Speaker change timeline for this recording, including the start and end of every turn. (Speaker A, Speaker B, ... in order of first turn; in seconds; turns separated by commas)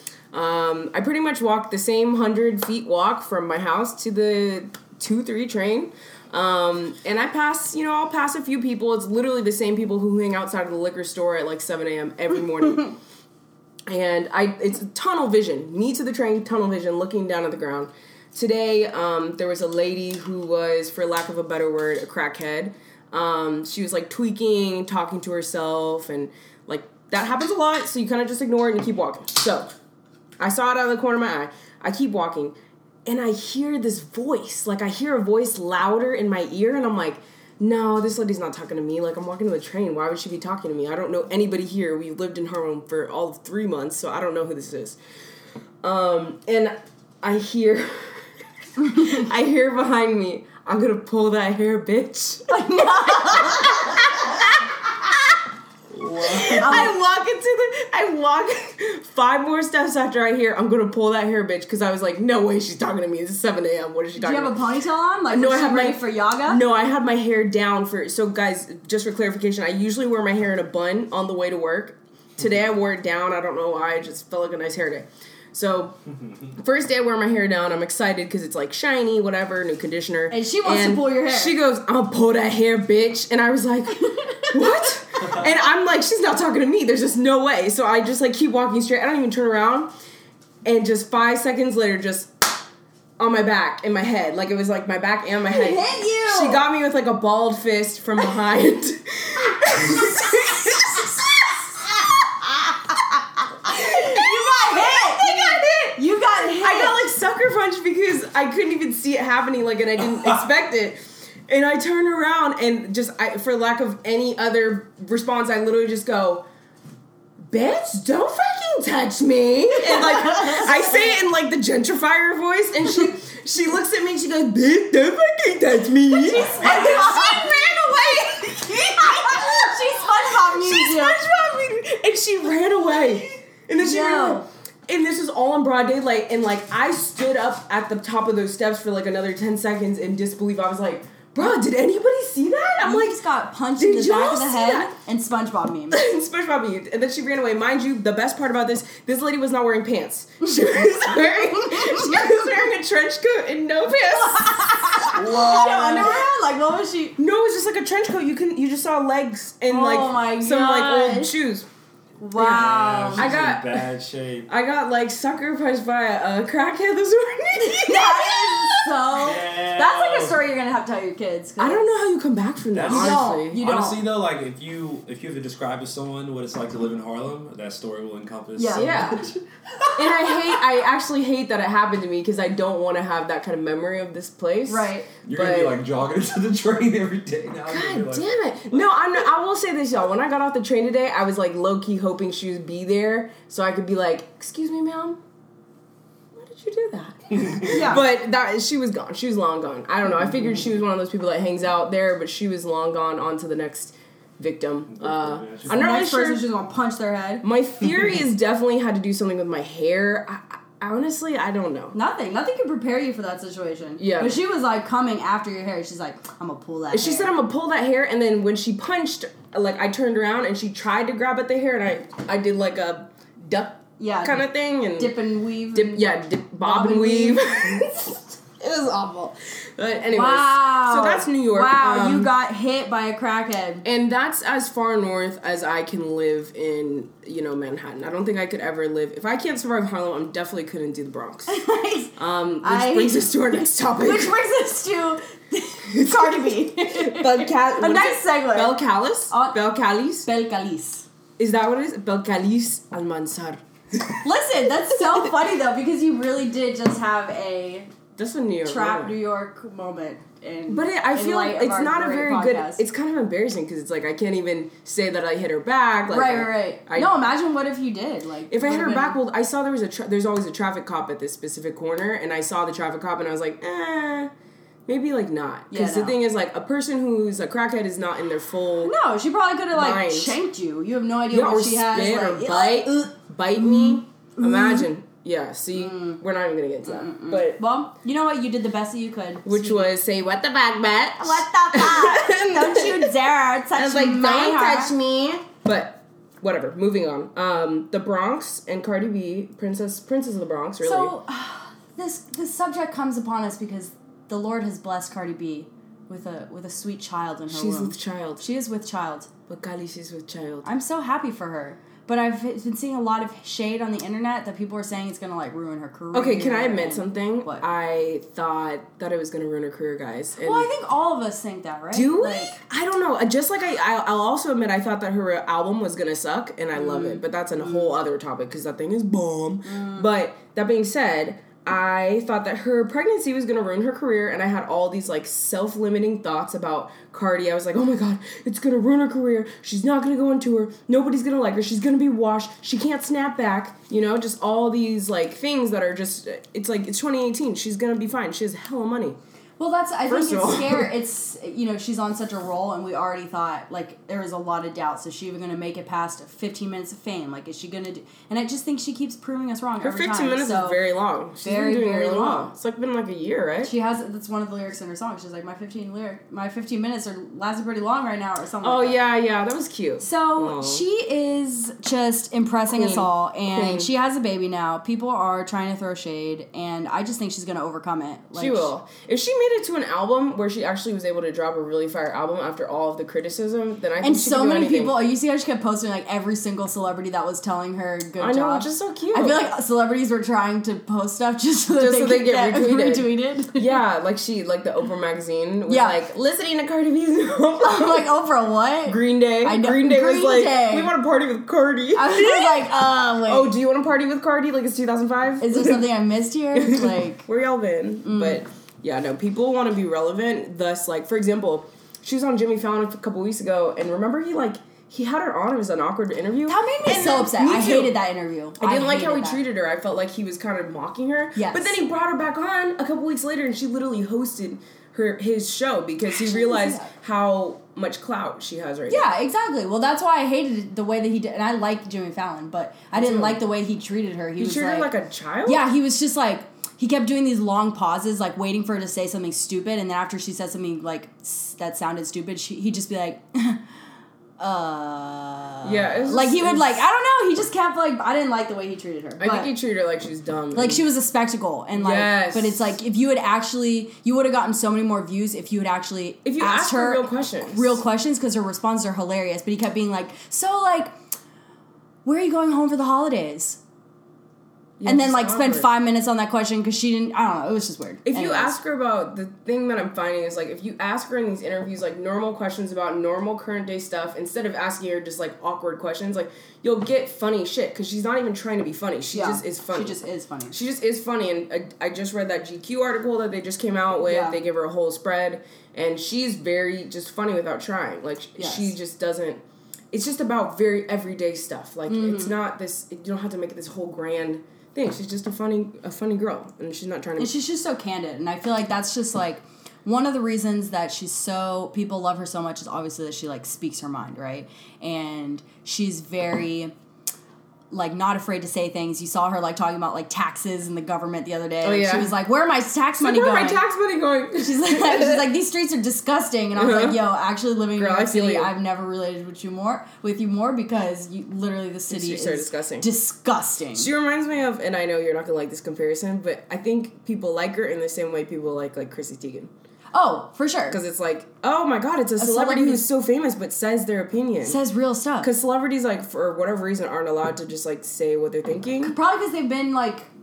Speaker A: 0.3-12.9, Speaker A: 13.9-29.7, Speaker A: 30.4-45.0, Speaker A: 45.8-48.3, Speaker B: 48.8-49.2, Speaker A: 48.9-55.4, Speaker B: 52.5-54.1, Speaker C: 55.9-56.9, Speaker A: 56.2-64.5, Speaker B: 56.6-56.9, Speaker B: 64.2-66.6, Speaker A: 65.3-76.0, Speaker A: 76.5-89.9, Speaker B: 80.3-81.5, Speaker B: 84.0-84.9, Speaker A: 90.6-92.5, Speaker A: 93.2-101.5, Speaker B: 95.5-96.6, Speaker B: 103.6-107.0, Speaker A: 103.7-116.5, Speaker A: 117.4-143.2, Speaker B: 119.9-121.1, Speaker B: 126.2-131.2, Speaker B: 133.7-134.5, Speaker B: 142.8-146.0, Speaker A: 143.8-144.9, Speaker A: 145.9-156.3, Speaker B: 151.2-152.3, Speaker B: 154.0-157.2, Speaker A: 157.2-161.7, Speaker B: 159.7-161.3, Speaker B: 162.2-163.4, Speaker A: 162.3-163.9, Speaker C: 162.4-164.5, Speaker A: 164.5-169.1, Speaker B: 167.8-171.9, Speaker C: 169.2-170.4, Speaker A: 171.6-173.6, Speaker C: 172.7-179.4, Speaker B: 172.9-174.0, Speaker B: 178.6-179.2, Speaker A: 178.8-179.2, Speaker A: 179.9-185.8, Speaker B: 184.7-185.1, Speaker C: 185.3-188.9, Speaker A: 187.7-195.2, Speaker A: 196.3-206.4, Speaker C: 197.4-197.7, Speaker B: 197.7-198.0, Speaker C: 204.9-205.8, Speaker B: 205.7-207.4, Speaker A: 207.4-211.9, Speaker B: 211.9-217.3, Speaker A: 214.0-214.4, Speaker A: 216.9-225.2, Speaker B: 224.0-226.1, Speaker A: 225.7-232.3, Speaker B: 226.6-228.1, Speaker B: 230.1-233.8, Speaker A: 233.8-241.6, Speaker B: 241.5-248.8, Speaker A: 242.2-244.3, Speaker A: 245.9-250.2, Speaker B: 249.3-249.6, Speaker B: 250.2-251.1, Speaker A: 251.4-254.2, Speaker B: 254.2-257.9, Speaker A: 254.9-255.3, Speaker A: 258.2-259.1, Speaker B: 258.6-262.8, Speaker A: 260.7-267.1, Speaker B: 266.1-269.2, Speaker A: 268.5-274.3, Speaker A: 274.9-278.9, Speaker B: 275.7-276.1, Speaker B: 278.8-284.9, Speaker A: 279.7-280.4, Speaker A: 281.3-287.6, Speaker B: 285.7-286.2, Speaker B: 286.8-289.9, Speaker A: 289.4-293.1, Speaker B: 291.2-294.9, Speaker A: 293.7-301.1, Speaker B: 300.8-309.3, Speaker A: 307.5-308.4, Speaker A: 309.5-310.7, Speaker B: 310.6-317.6, Speaker A: 316.1-320.7, Speaker B: 320.4-322.6, Speaker A: 321.9-349.2, Speaker B: 326.8-327.9, Speaker B: 329.6-330.1, Speaker B: 349.6-360.8, Speaker A: 350.1-350.9, Speaker A: 359.8-363.7, Speaker B: 361.4-362.5, Speaker B: 363.6-369.0, Speaker A: 368.6-370.8, Speaker B: 370.0-378.7, Speaker A: 372.7-373.9, Speaker A: 378.3-384.9, Speaker B: 384.0-393.8, Speaker A: 388.2-389.4, Speaker A: 391.8-398.1, Speaker B: 395.7-396.0, Speaker B: 397.6-400.9, Speaker A: 398.8-402.7, Speaker B: 401.9-403.5, Speaker A: 403.2-405.9, Speaker B: 405.4-407.2, Speaker A: 406.5-417.9, Speaker B: 408.0-408.4, Speaker B: 416.4-419.4, Speaker A: 418.6-429.1, Speaker B: 421.4-421.7, Speaker B: 426.1-426.9, Speaker B: 428.9-434.9, Speaker A: 432.9-433.4, Speaker A: 434.4-435.6, Speaker B: 435.4-443.6, Speaker B: 444.4-449.5, Speaker A: 445.6-446.8, Speaker A: 449.2-450.8, Speaker B: 450.5-460.9, Speaker A: 451.8-452.8, Speaker A: 456.2-457.8, Speaker B: 462.0-463.6, Speaker A: 464.8-465.7, Speaker B: 464.8-468.6, Speaker A: 468.0-480.0, Speaker B: 479.1-480.5, Speaker A: 480.5-497.3, Speaker B: 484.1-484.4, Speaker B: 488.4-488.7, Speaker B: 491.9-492.3, Speaker B: 497.2-506.7, Speaker B: 507.7-513.6, Speaker A: 511.6-512.1, Speaker A: 513.0-515.2, Speaker B: 514.4-523.9, Speaker A: 516.5-517.0, Speaker A: 517.8-518.5, Speaker A: 521.9-522.9, Speaker A: 523.7-529.5, Speaker B: 529.9-530.8, Speaker A: 530.7-534.6, Speaker B: 532.2-532.8, Speaker B: 534.4-535.3, Speaker A: 535.2-538.9, Speaker B: 538.8-540.1